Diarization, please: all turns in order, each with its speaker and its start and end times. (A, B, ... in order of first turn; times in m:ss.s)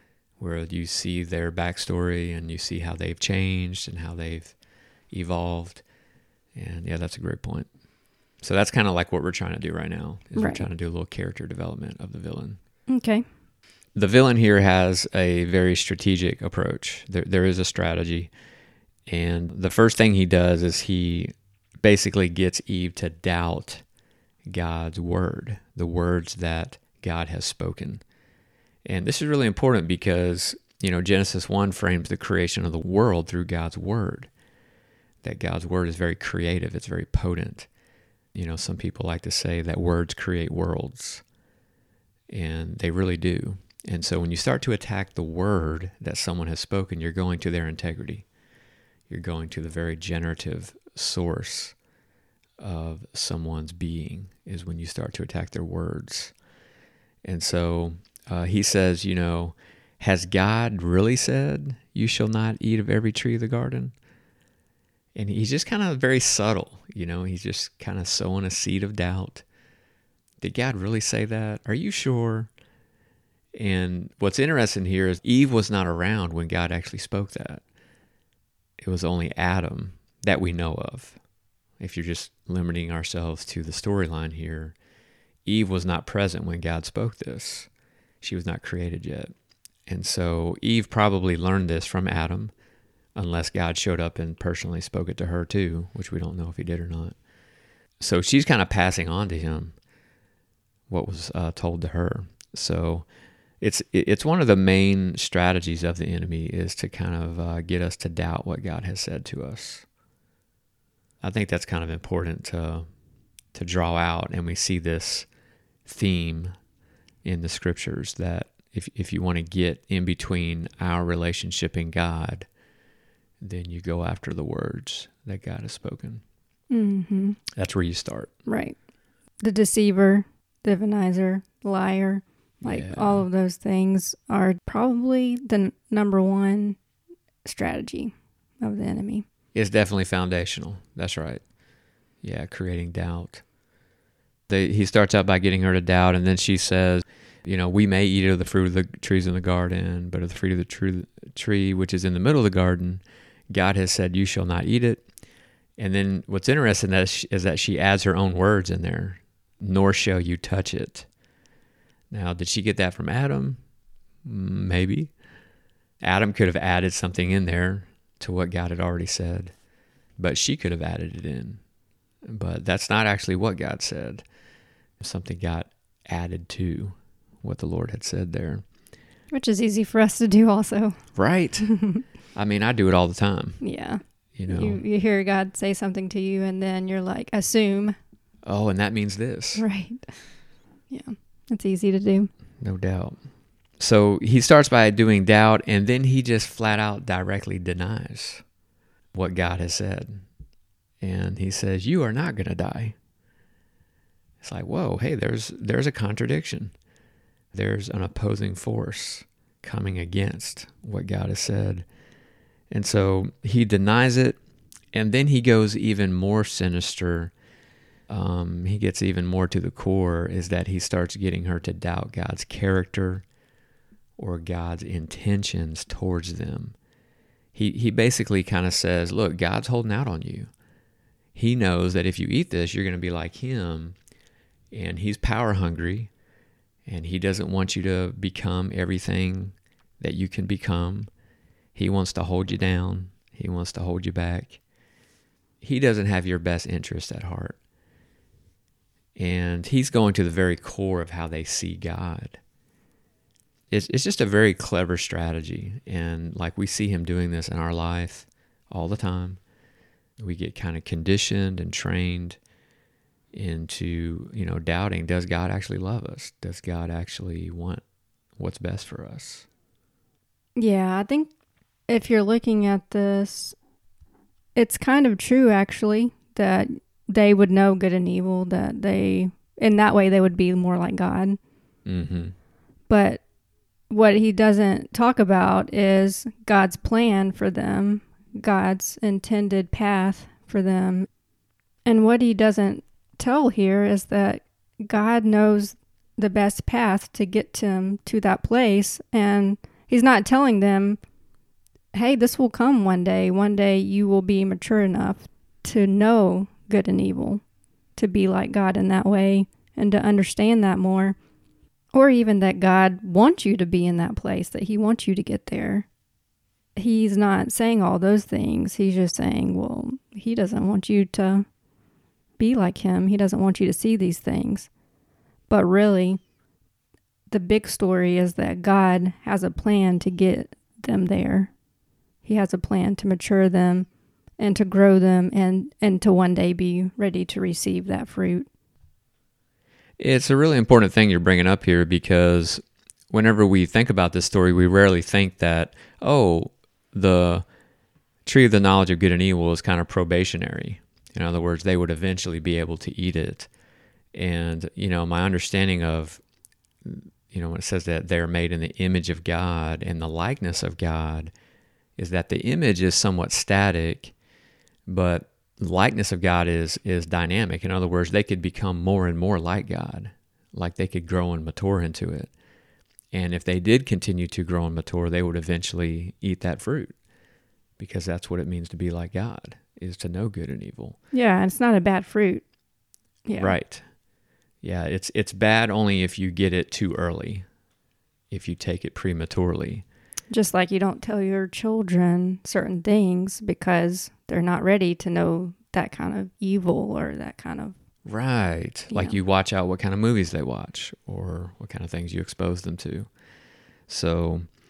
0:00.4-0:04.6 A
0:05.1-0:05.8 A
0:06.6-0:07.7 A
0:08.4-0:12.6 A
0:10.4-0:10.7 B
0:12.9-0:13.2 B
0:14.0-0:18.3 A
0:19.1-0:23.8 A
0:24.5-0:28.0 A
0:28.8-0:34.3 A
0:35.2-0:37.7 A
0:38.3-0:41.2 A
0:42.3-0:48.2 A
0:49.1-0:51.8 A
0:52.6-0:56.3 A
0:57.2-1:03.9 A
1:05.2-1:09.4 A
1:10.4-1:12.5 A
1:13.6-1:17.6 A
1:18.8-1:21.2 A
1:21.8-1:24.8 A
1:25.5-1:27.7 A
1:28.2-1:29.3 A
1:29.9-1:32.5 A
1:33.2-1:37.2 A
1:38.0-1:39.8 A
1:40.9-1:43.1 A
1:43.6-1:49.9 A
1:51.2-1:52.9 A
1:53.6-1:55.3 A
1:55.9-1:56.6 A
1:57.2-2:02.5 A
2:03.4-2:06.2 A
2:06.7-2:07.4 B
2:07.6-2:08.3 A
2:08.5-2:08.8 B
2:09.4-2:16.8 B
2:12.6-2:13.2 A
2:17.4-2:19.3 B
2:19.5-2:21.4 A
2:22.2-2:23.4 A
2:24.5-2:35.0 A
2:35.8-2:41.1 A
2:42.1-2:43.6 A
2:44.2-2:45.1 A
2:46.0-2:49.5 A
2:50.2-2:51.6 A
2:52.3-2:54.2 A
2:55.0-2:58.6 A
2:59.3-3:01.0 B
3:01.2-3:01.7 A
3:01.7-3:02.0 B
3:02.3-3:03.6 A
3:03.6-3:08.0 B
3:04.4-3:04.8 A
3:08.4-3:09.6 A
3:09.6-3:10.1 B
3:10.9-3:12.3 B
3:12.6-3:13.2 A
3:13.8-3:18.4 A
3:19.1-3:20.2 A
3:21.0-3:23.0 A
3:24.4-3:26.8 A
3:27.5-3:31.9 A
3:32.7-3:34.4 A
3:34.9-3:37.3 A
3:38.1-3:43.2 A
3:44.2-3:46.8 A
3:47.6-3:50.5 A
3:51.4-3:54.0 A
3:54.7-3:56.1 A
3:56.9-4:01.1 A
4:01.8-4:04.6 A
4:05.6-4:07.6 A
4:09.2-4:12.4 A
4:13.7-4:19.4 A
4:20.2-4:22.4 A
4:23.3-4:27.8 A
4:28.4-4:29.5 A
4:30.6-4:31.3 B
4:31.9-4:33.6 B
4:34.6-4:41.4 B
4:41.9-4:42.4 A
4:42.9-4:43.2 B
4:43.9-4:51.1 B
4:51.9-5:01.0 B
5:01.9-5:07.4 B
5:08.0-5:11.2 B
5:11.9-5:15.9 B
5:16.8-5:21.5 B
5:22.4-5:24.7 B
5:25.5-5:26.2 B
5:27.3-5:31.5 B
5:32.2-5:33.9 B
5:34.4-5:38.5 B
5:40.0-5:47.4 A
5:48.2-5:53.5 A
5:54.1-5:56.2 A
5:56.8-6:01.3 A
6:02.0-6:04.1 A
6:04.9-6:12.3 A
6:13.1-6:16.9 A
6:17.8-6:21.0 A
6:21.1-6:22.4 B
6:23.3-6:23.6 B
6:23.4-6:23.8 A
6:24.6-6:27.5 A
6:28.3-6:29.8 A
6:30.3-6:37.8 B
6:38.1-6:43.1 A
6:38.9-6:39.2 B
6:43.9-6:44.5 A